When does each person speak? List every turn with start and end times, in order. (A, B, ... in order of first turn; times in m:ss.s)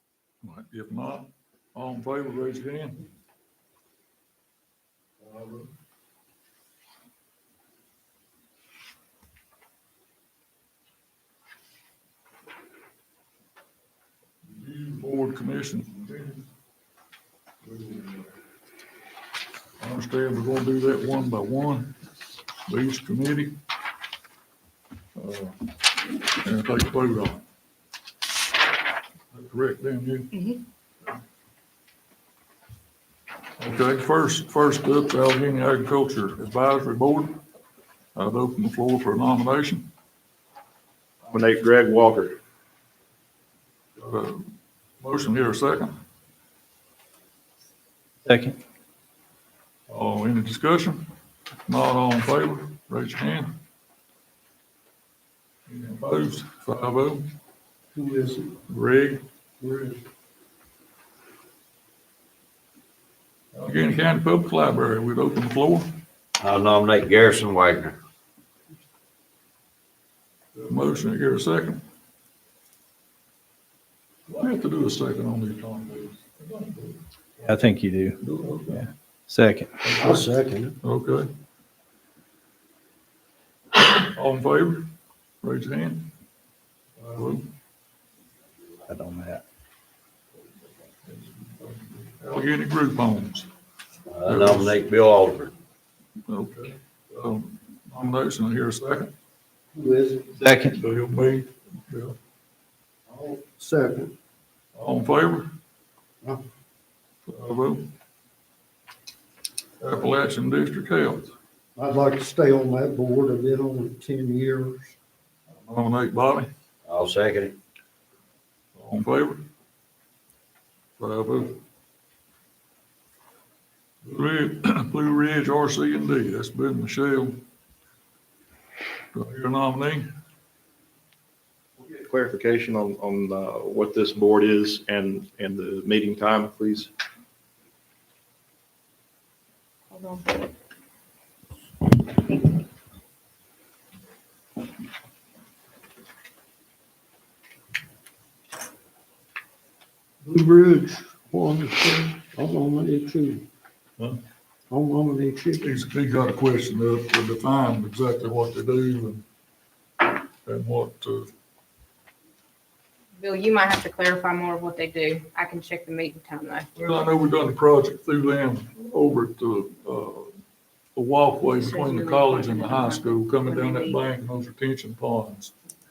0:00.4-0:03.0 A
0:05.2-0:05.6 A
0:14.4-0:16.4 A
0:17.6-0:18.3 A
0:19.8-0:21.9 A
0:22.7-0:23.6 A
0:25.2-0:25.6 A
0:26.1-0:27.4 A
0:29.3-0:30.3 A
0:30.3-0:30.6 B
0:33.6-0:37.4 A
0:38.1-0:39.9 A
0:41.2-0:42.4 C
0:44.0-0:44.5 A
0:45.0-0:45.9 A
0:48.2-0:48.6 D
0:49.9-0:51.0 A
0:51.7-0:53.5 A
0:55.7-0:57.3 A
0:57.9-0:58.5 E
0:58.7-0:59.2 A
0:59.6-1:00.0 E
1:03.5-1:05.9 A
1:06.4-1:08.0 F
1:10.5-1:11.8 A
1:14.3-1:17.0 A
1:17.4-1:18.2 D
1:18.2-1:18.8 A
1:18.7-1:19.7 D
1:19.8-1:20.2 A
1:19.9-1:20.8 E
1:20.8-1:21.3 A
1:23.8-1:24.8 A
1:25.4-1:26.1 A
1:27.0-1:27.4 A
1:28.9-1:29.4 D
1:31.1-1:33.5 A
1:34.1-1:35.5 F
1:34.2-1:34.8 A
1:36.3-1:39.1 A
1:39.7-1:40.3 E
1:40.4-1:40.8 D
1:40.6-1:42.1 A
1:43.1-1:44.1 E
1:44.7-1:45.5 A
1:47.3-1:47.9 A
1:49.8-1:51.3 A
1:51.8-1:55.0 E
1:55.5-1:56.5 A
1:56.8-1:57.6 F
1:58.8-1:59.4 A
2:01.0-2:01.6 A
2:04.0-2:07.4 A
2:09.1-2:10.1 A
2:11.8-2:16.9 C
2:19.9-2:20.3 B
2:30.2-2:33.4 E
2:34.7-2:35.7 E
2:35.6-2:39.2 A
2:40.0-2:41.3 A
2:43.2-2:46.7 B
2:46.8-2:50.3 A
2:51.0-2:55.5 A
2:51.5-2:54.0 B